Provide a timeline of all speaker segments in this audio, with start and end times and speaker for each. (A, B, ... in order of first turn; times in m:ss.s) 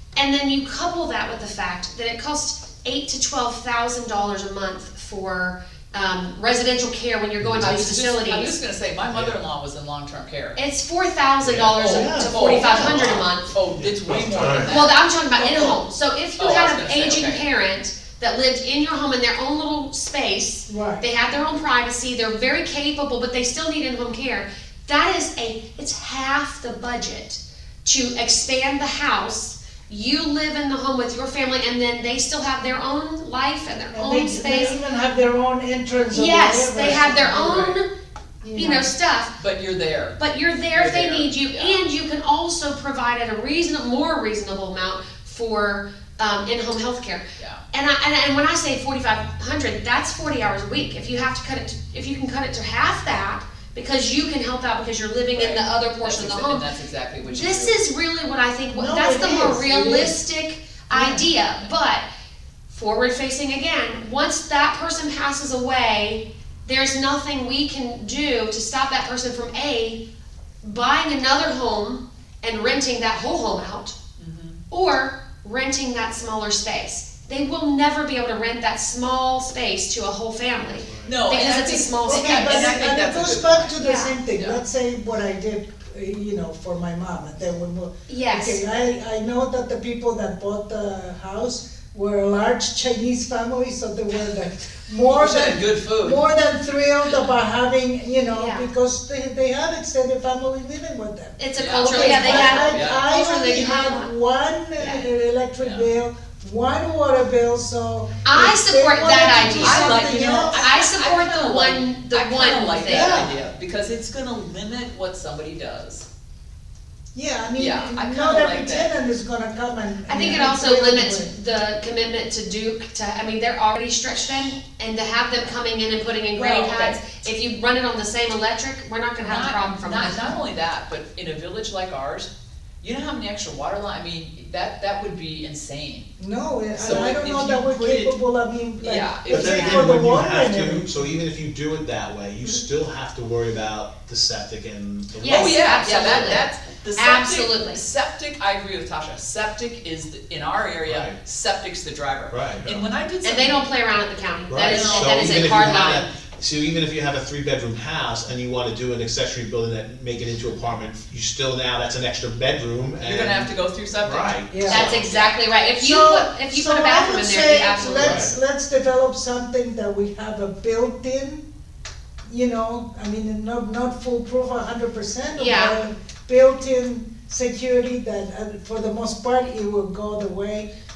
0:00.2-0:08.6 A
0:07.6-0:10.6 B
0:09.1-0:09.4 C
0:10.6-0:13.5 A
0:11.4-0:14.8 C
0:11.7-0:15.8 B
0:14.6-0:34.8 A
0:16.4-0:17.4 B
0:20.7-0:21.0 D
0:33.9-0:37.6 D
0:36.1-0:37.9 A
0:37.4-0:37.8 B
0:38.4-0:38.9 D
0:38.5-0:39.4 A
0:39.4-0:40.2 B
0:40.2-0:56.7 A
0:40.7-0:41.8 B
0:47.4-0:47.6 B
0:55.3-0:57.8 B
0:57.2-1:02.0 A
0:58.7-1:00.2 D
1:00.9-1:01.3 D
1:02.7-1:10.0 A
1:10.6-1:14.0 A
1:14.2-1:14.6 B
1:14.7-1:22.8 A
1:21.0-1:24.6 B
1:22.1-1:50.7 D
1:23.8-1:24.2 A
1:28.1-1:28.6 A
1:35.1-1:36.2 B
1:38.4-1:38.7 A
1:41.4-1:44.1 A
1:41.6-1:43.0 B
1:44.8-1:45.0 A
1:45.6-1:45.9 B
1:48.2-1:53.3 A
1:49.6-1:56.1 B
1:52.9-1:53.3 D
1:57.1-2:01.4 D
1:57.6-1:58.9 B
2:00.1-2:10.4 A
2:06.3-2:07.2 B
2:09.2-2:12.3 B
2:12.8-2:16.1 B
2:16.2-2:21.1 D
2:16.8-2:18.1 B
2:18.8-2:19.9 B
2:19.3-2:26.3 C
2:25.2-2:27.8 A
2:25.2-2:33.6 B
2:30.8-2:31.2 C
2:32.3-2:32.9 C
2:33.2-2:36.1 A
2:34.5-2:45.1 C
2:34.6-2:36.1 B
2:43.0-2:45.4 B
2:44.5-2:44.8 D
2:44.7-2:48.2 A
2:45.8-2:51.4 D
2:48.0-2:48.3 C
2:52.3-3:00.7 D
2:55.4-2:55.8 A